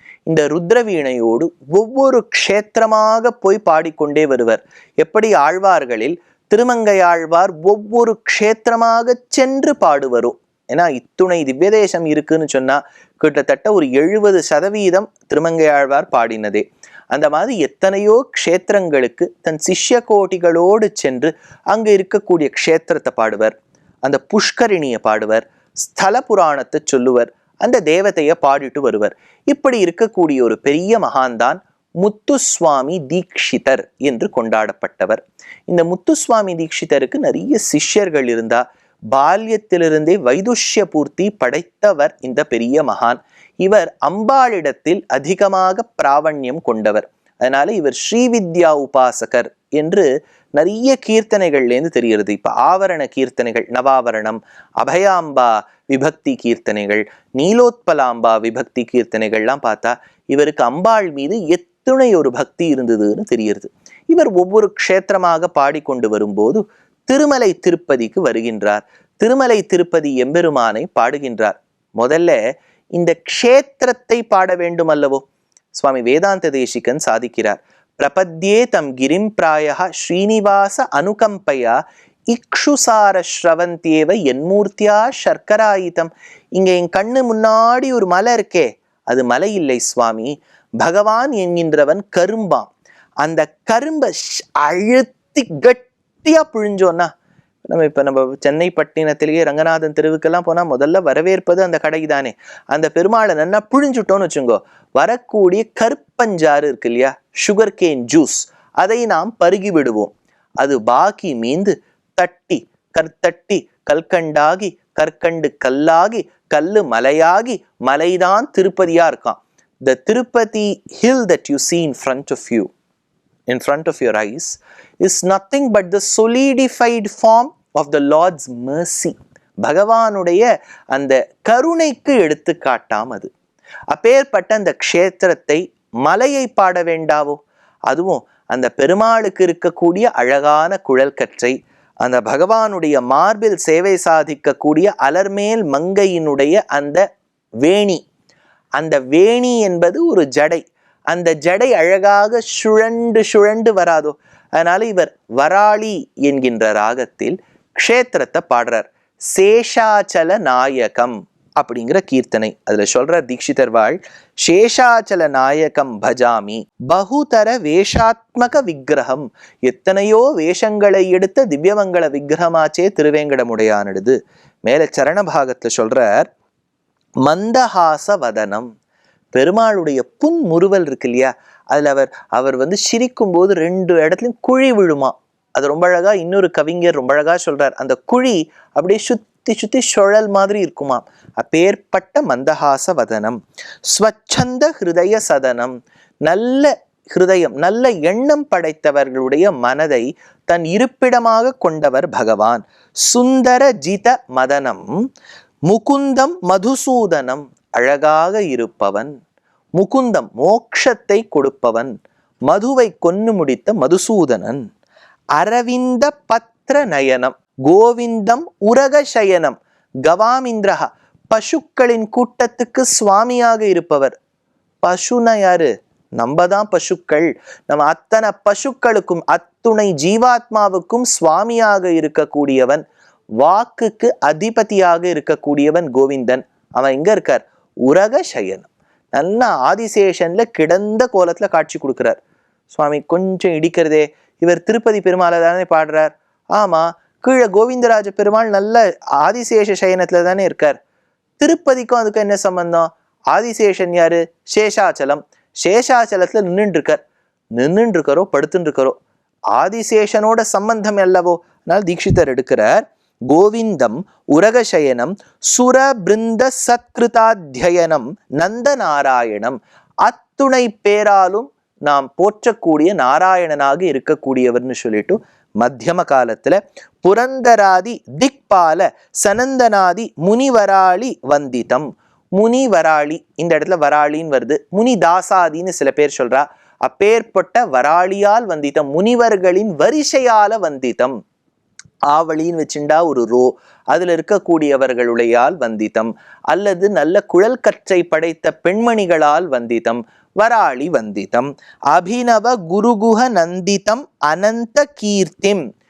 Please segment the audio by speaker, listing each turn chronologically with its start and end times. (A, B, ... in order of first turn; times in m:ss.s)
0:00.3-1:12.4 A
1:13.0-1:21.8 A
1:22.3-1:32.7 A
1:33.2-1:37.1 A
1:37.7-2:02.7 A
2:03.5-2:13.3 A
2:13.9-2:27.0 A
2:27.6-2:28.0 A
2:28.8-2:56.3 A
2:57.2-2:58.7 A
2:59.3-3:15.7 A
3:16.2-3:24.9 A
3:25.7-3:29.1 A
3:29.8-3:31.9 A
3:32.5-3:34.6 A
3:35.4-3:44.1 A
3:44.8-3:52.8 A
3:53.4-4:02.2 A
4:02.7-4:10.8 A
4:11.4-4:17.0 A
4:17.6-4:19.0 A
4:19.5-4:51.2 A
4:52.1-5:05.6 A